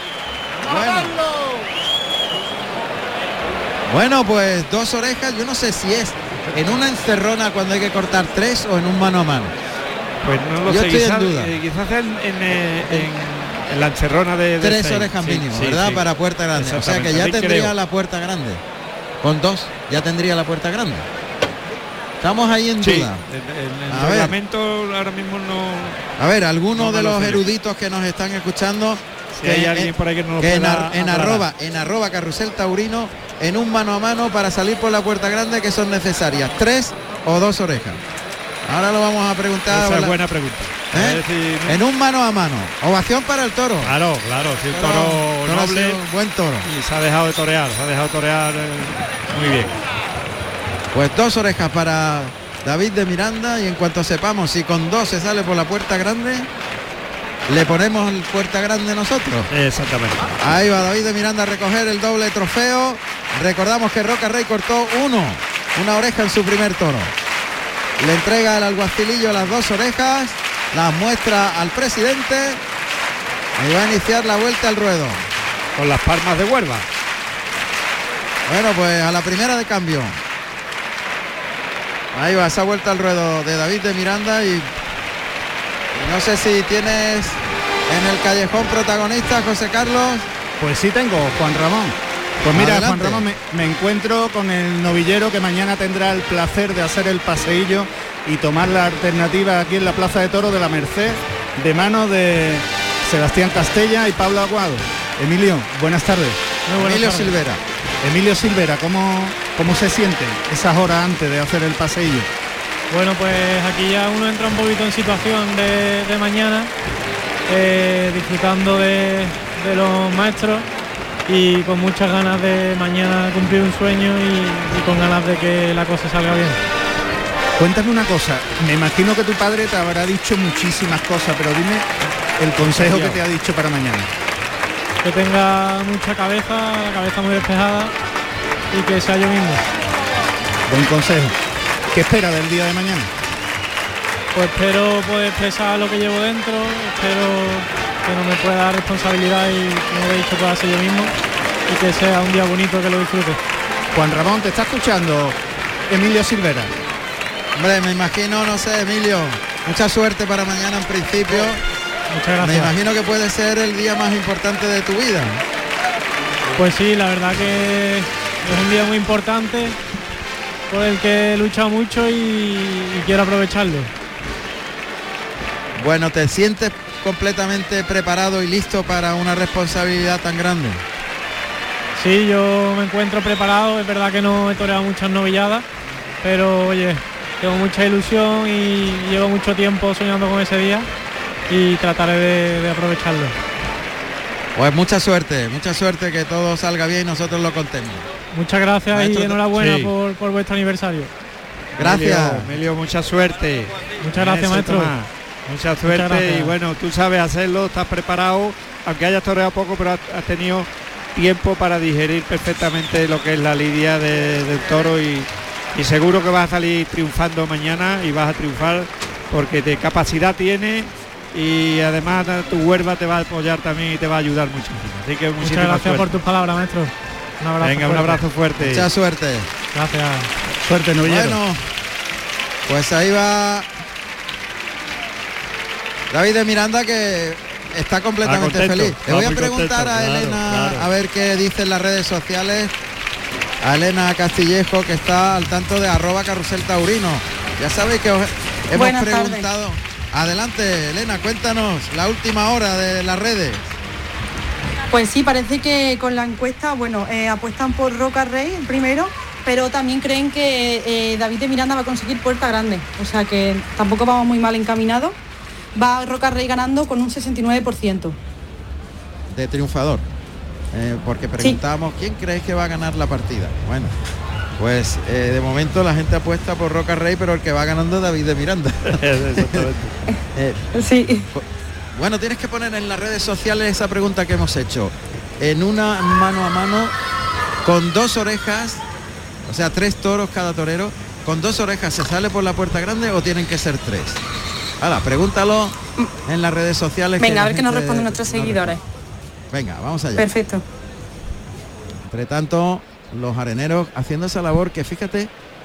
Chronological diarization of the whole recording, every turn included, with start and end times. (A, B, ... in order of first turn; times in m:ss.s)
0:00.6-0:01.2 A
0:03.9-0:09.6 A
0:10.2-0:17.7 B
0:10.6-0:11.6 A
0:14.6-0:18.6 A
0:19.2-0:21.1 A
0:22.2-0:23.2 A
0:22.8-0:26.0 B
0:23.9-0:24.3 A
0:26.2-0:38.0 A
0:26.7-0:27.4 B
0:29.3-0:31.5 B
0:38.6-0:40.2 A
0:39.7-0:41.8 B
0:40.9-0:43.9 A
0:43.8-0:46.0 B
0:44.7-0:46.7 A
0:46.6-0:49.7 B
0:50.9-0:56.5 A
0:57.5-0:59.5 A
0:59.5-1:00.3 B
1:00.4-1:07.1 A
1:08.0-1:12.6 A
1:13.6-1:15.2 A
1:15.8-1:16.9 B
1:18.5-1:20.2 A
1:22.1-1:24.7 A
1:25.9-1:30.3 A
1:30.6-1:46.4 C
1:32.5-1:33.3 A
1:46.7-1:47.4 D
1:46.8-1:47.6 A
1:48.0-1:52.3 C
1:52.9-1:56.7 D
1:57.5-2:00.7 D
2:01.3-2:06.6 D
2:07.6-2:11.9 C
2:12.4-2:14.1 C
2:12.7-2:13.2 B
2:15.0-2:17.9 D
2:18.7-2:19.6 D
2:20.7-2:21.3 C
2:21.9-2:23.1 C
2:24.4-2:31.1 D
2:31.7-2:33.4 D
2:33.9-2:35.4 C
2:35.9-2:36.7 C
2:37.6-2:41.6 A
2:42.1-2:42.7 D
2:42.4-2:45.4 A
2:46.6-2:49.8 D
2:50.7-2:53.9 D
2:55.8-3:00.8 A
3:02.0-3:05.6 D
3:06.2-3:10.9 D
3:11.5-3:13.3 D
3:14.6-3:18.1 A
3:18.3-3:21.1 D
3:18.9-3:19.4 A
3:19.4-3:19.9 B
3:21.8-3:22.5 A
3:21.8-3:46.2 B
3:24.0-3:24.9 D
3:25.8-3:26.5 D
3:45.4-3:48.2 D
3:47.6-3:48.9 B
3:48.6-3:49.5 A
3:49.7-3:50.3 D
3:50.6-3:51.4 C
3:51.0-3:51.6 A
3:52.7-3:53.7 A
3:56.1-4:02.7 A
3:58.2-4:00.9 B
4:03.6-4:13.8 A
4:08.7-4:09.5 E
4:14.9-4:25.2 E
4:25.8-4:28.2 E
4:29.3-4:30.1 A
4:30.7-4:33.9 A
4:34.6-4:39.7 A
4:38.9-4:40.0 B
4:40.3-4:40.7 A
4:40.7-4:41.3 E
4:41.3-4:46.9 A
4:47.6-4:48.8 A
4:49.5-4:54.2 A
4:54.8-4:58.8 A
4:57.2-4:58.8 E
4:59.5-5:00.3 A
5:00.2-5:00.6 E
5:02.1-5:05.3 A